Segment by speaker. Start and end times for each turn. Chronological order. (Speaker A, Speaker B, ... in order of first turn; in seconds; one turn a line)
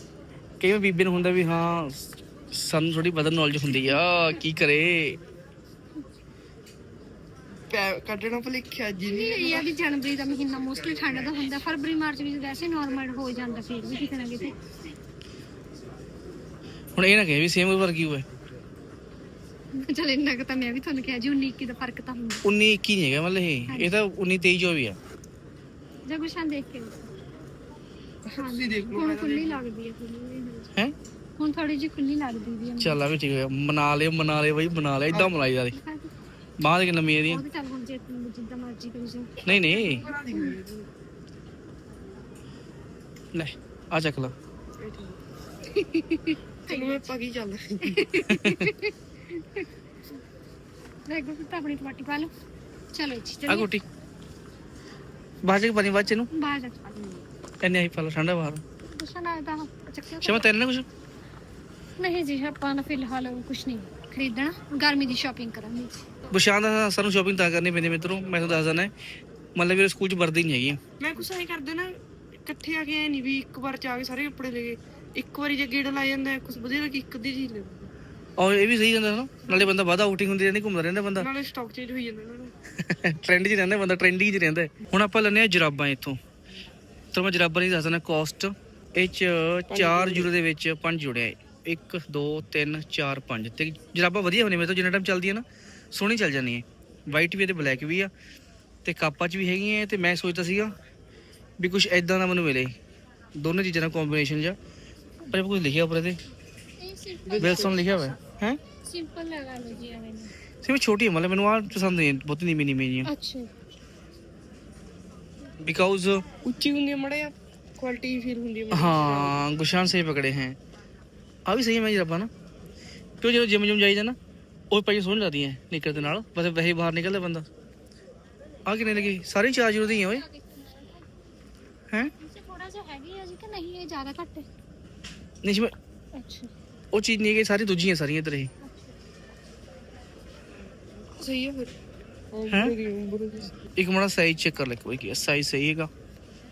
Speaker A: 0.6-5.2
Speaker B: 7.7-9.7
Speaker C: 9.1-14.6
Speaker A: 17.0-18.2
Speaker C: 19.7-22.4
Speaker A: 22.4-25.0
Speaker C: 23.7-23.9
Speaker C: 26.1-27.1
Speaker B: 28.3-29.6
Speaker C: 28.4-30.7
Speaker C: 31.4-33.0
Speaker A: 32.8-35.8
Speaker C: 35.6-36.1
Speaker A: 36.6-37.4
Speaker C: 37.2-40.6
Speaker A: 39.4-40.0
Speaker B: 39.5-40.9
Speaker A: 43.3-44.3
Speaker B: 44.8-45.2
Speaker C: 45.6-47.0
Speaker B: 46.7-48.1
Speaker C: 47.8-49.7
Speaker A: 48.2-48.7
Speaker C: 51.1-52.3
Speaker C: 52.9-53.7
Speaker A: 53.5-53.8
Speaker A: 55.4-56.3
Speaker C: 56.3-56.8
Speaker B: 56.9-57.2
Speaker A: 57.6-58.6
Speaker C: 58.8-60.5
Speaker A: 60.2-60.9
Speaker C: 62.0-66.0
Speaker A: 66.3-68.9
Speaker A: 69.5-70.8
Speaker B: 71.0-77.9
Speaker A: 78.4-81.3
Speaker B: 79.5-79.7
Speaker B: 81.2-82.5
Speaker A: 82.8-86.2
Speaker A: 87.1-98.1
Speaker B: 89.7-90.3
Speaker A: 98.8-100.7
Speaker A: 101.6-102.7
Speaker A: 103.4-104.5
Speaker A: 105.3-106.2
Speaker C: 106.8-108.1
Speaker B: 107.3-107.9
Speaker A: 107.4-108.6
Speaker C: 108.8-110.3
Speaker A: 110.6-113.1
Speaker C: 113.1-113.5
Speaker A: 115.6-116.2
Speaker B: 116.4-119.4
Speaker A: 118.7-120.6
Speaker A: 121.5-122.3
Speaker A: 123.2-124.2
Speaker A: 124.7-127.5
Speaker A: 128.7-130.2
Speaker C: 130.0-131.0
Speaker C: 132.2-134.5
Speaker A: 135.4-135.7
Speaker C: 136.2-136.5
Speaker A: 136.9-138.5
Speaker C: 138.6-138.9
Speaker B: 141.1-141.7
Speaker B: 142.3-143.6
Speaker A: 142.5-142.7
Speaker A: 143.8-145.9